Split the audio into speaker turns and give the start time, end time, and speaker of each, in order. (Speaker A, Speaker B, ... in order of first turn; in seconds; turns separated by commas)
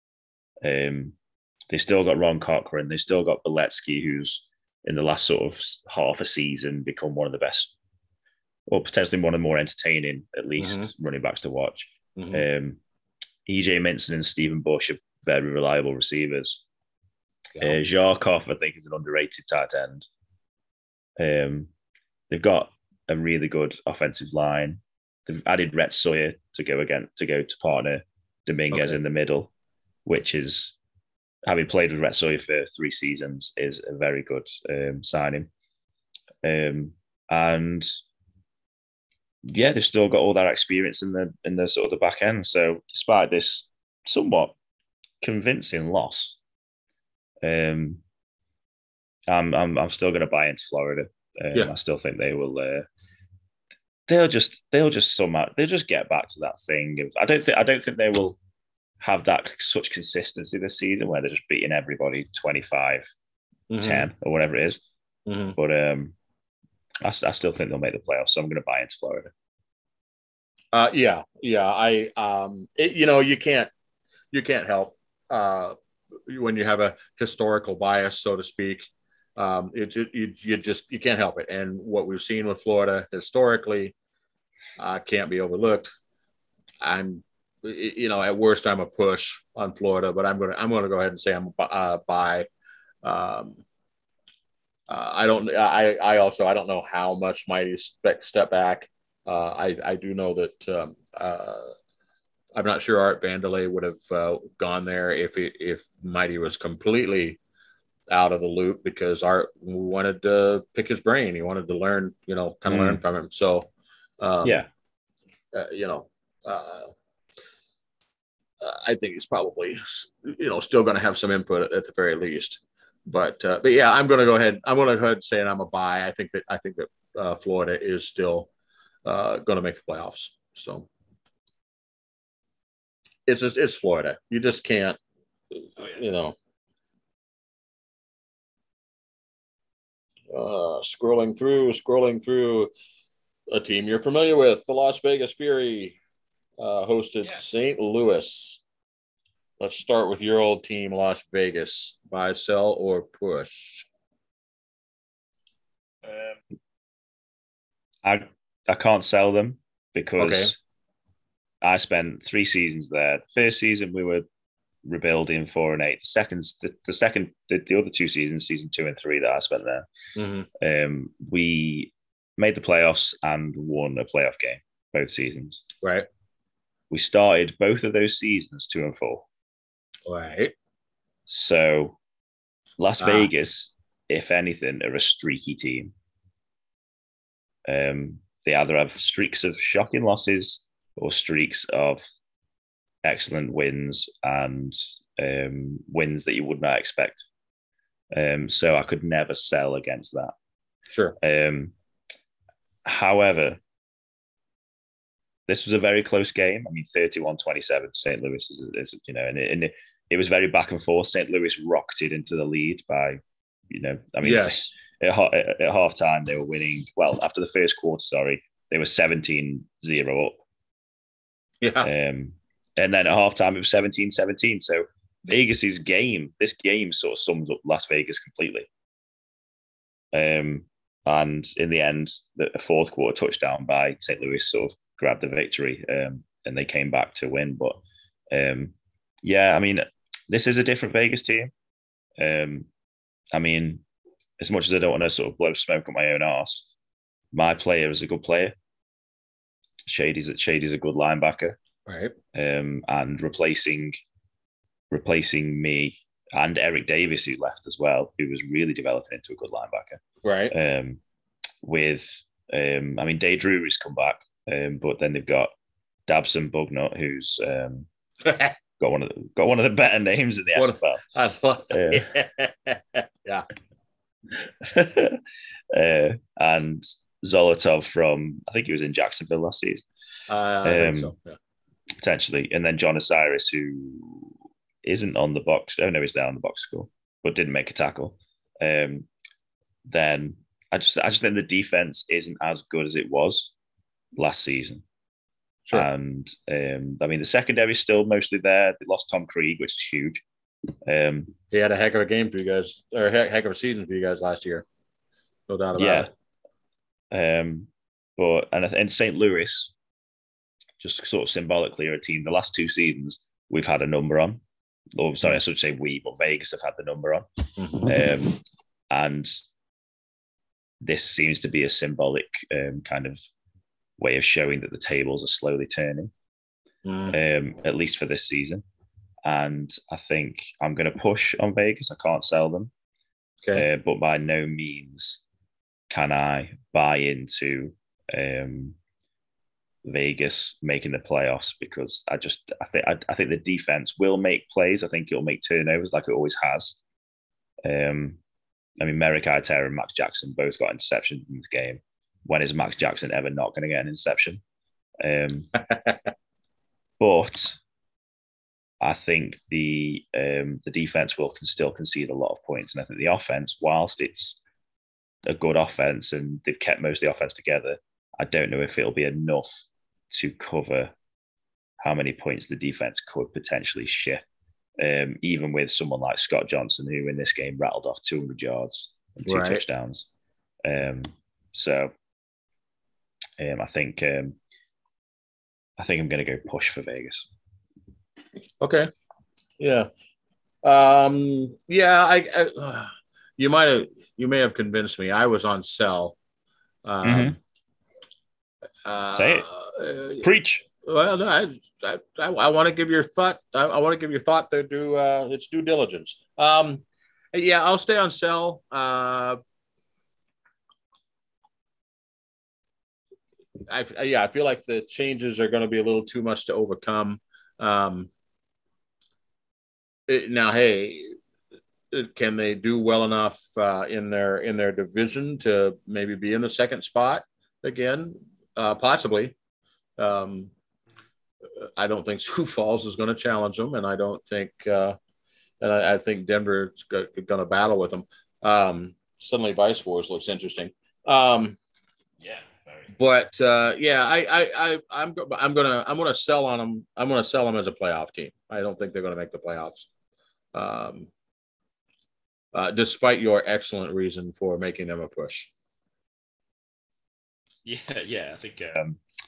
Speaker A: 0.6-1.1, Speaker A: 1.7-7.7, Speaker A: 8.7-12.8, Speaker B: 10.6-10.9, Speaker B: 12.2-12.4, Speaker A: 13.4-16.6, Speaker A: 17.6-20.1, Speaker A: 21.2-21.7, Speaker A: 22.3-29.5, Speaker B: 28.7-29.0, Speaker A: 30.0-30.8, Speaker A: 31.4-35.5, Speaker A: 36.4-37.9, Speaker A: 39.5-44.5, Speaker A: 45.2-46.4, Speaker A: 47.4-48.0, Speaker A: 49.3-52.9, Speaker A: 54.1-58.4, Speaker A: 59.0-63.1, Speaker B: 63.7-64.1, Speaker A: 63.8-64.8, Speaker B: 65.3-65.5, Speaker A: 65.5-66.1, Speaker A: 67.0-69.3, Speaker B: 70.7-73.7, Speaker B: 74.3-75.8, Speaker B: 76.3-83.9, Speaker B: 84.8-85.9, Speaker B: 86.8-92.5, Speaker B: 93.0-93.6, Speaker B: 94.9-101.7, Speaker B: 102.5-107.4, Speaker B: 108.1-113.7, Speaker A: 112.7-113.0, Speaker B: 114.2-114.6, Speaker B: 115.5-116.9, Speaker B: 118.6-128.5, Speaker B: 129.0-130.9, Speaker B: 133.3-135.0, Speaker B: 135.5-136.3, Speaker B: 140.3-142.7, Speaker B: 143.5-146.0, Speaker B: 146.6-148.6, Speaker B: 149.6-153.9, Speaker A: 156.0-156.4, Speaker A: 158.0-160.6, Speaker B: 160.2-160.5, Speaker A: 161.6-164.2, Speaker A: 164.8-169.9, Speaker B: 170.2-170.5, Speaker A: 170.6-175.6, Speaker A: 176.9-179.2, Speaker B: 180.1-180.5, Speaker A: 181.3-182.0, Speaker A: 182.8-185.9, Speaker B: 183.0-183.3, Speaker A: 187.7-192.0, Speaker A: 193.0-197.2, Speaker A: 198.1-200.3, Speaker B: 200.9-201.2, Speaker A: 201.2-201.7, Speaker A: 202.8-203.6, Speaker A: 205.5-220.4, Speaker B: 214.2-214.7, Speaker B: 221.6-221.9, Speaker A: 221.8-228.7, Speaker A: 230.1-237.8, Speaker A: 238.3-241.5, Speaker A: 242.2-242.7, Speaker A: 243.3-243.8, Speaker A: 244.4-246.7, Speaker A: 247.3-248.5, Speaker A: 249.9-251.6, Speaker B: 251.9-252.1, Speaker A: 252.3-254.0, Speaker A: 254.9-261.0, Speaker B: 260.2-260.5, Speaker A: 261.6-265.5, Speaker A: 266.1-267.9, Speaker B: 268.2-268.5, Speaker A: 268.8-271.0, Speaker B: 270.6-273.4, Speaker A: 271.7-272.1, Speaker A: 274.4-279.8, Speaker B: 280.3-281.4, Speaker A: 280.6-281.1, Speaker A: 282.0-289.1, Speaker A: 289.9-293.5, Speaker A: 294.1-294.8, Speaker A: 295.7-300.2, Speaker A: 300.9-301.3, Speaker B: 301.5-304.6, Speaker B: 305.5-306.1, Speaker A: 305.7-306.1, Speaker A: 307.1-309.7, Speaker A: 310.8-314.4, Speaker A: 314.9-317.2, Speaker B: 317.6-318.0, Speaker A: 317.8-319.3, Speaker A: 320.8-323.2, Speaker A: 324.0-326.1, Speaker B: 326.8-327.2, Speaker A: 327.1-328.6, Speaker A: 329.2-332.7, Speaker A: 333.5-335.2, Speaker A: 335.9-338.8, Speaker A: 339.8-346.8, Speaker A: 347.6-348.2, Speaker A: 348.8-354.4, Speaker A: 355.0-355.5, Speaker B: 355.7-356.0, Speaker A: 357.0-357.6, Speaker A: 358.8-364.4, Speaker A: 365.2-369.5, Speaker A: 370.1-370.9, Speaker A: 371.8-374.2, Speaker A: 374.8-380.1, Speaker B: 379.3-379.6, Speaker A: 380.6-381.9, Speaker A: 383.4-384.4, Speaker A: 385.8-387.3, Speaker B: 388.6-388.9, Speaker B: 389.6-389.9, Speaker B: 390.6-396.1, Speaker B: 396.8-397.4, Speaker A: 397.0-397.4, Speaker B: 398.8-400.2, Speaker A: 399.1-399.4, Speaker A: 400.2-400.6, Speaker B: 400.8-409.4, Speaker B: 413.7-418.1, Speaker B: 420.1-421.2, Speaker B: 421.9-429.3, Speaker B: 430.0-430.5, Speaker B: 431.6-434.9, Speaker B: 435.6-441.6, Speaker A: 442.2-442.9, Speaker B: 443.0-449.9, Speaker B: 450.5-451.1, Speaker B: 452.5-455.5, Speaker A: 457.6-459.0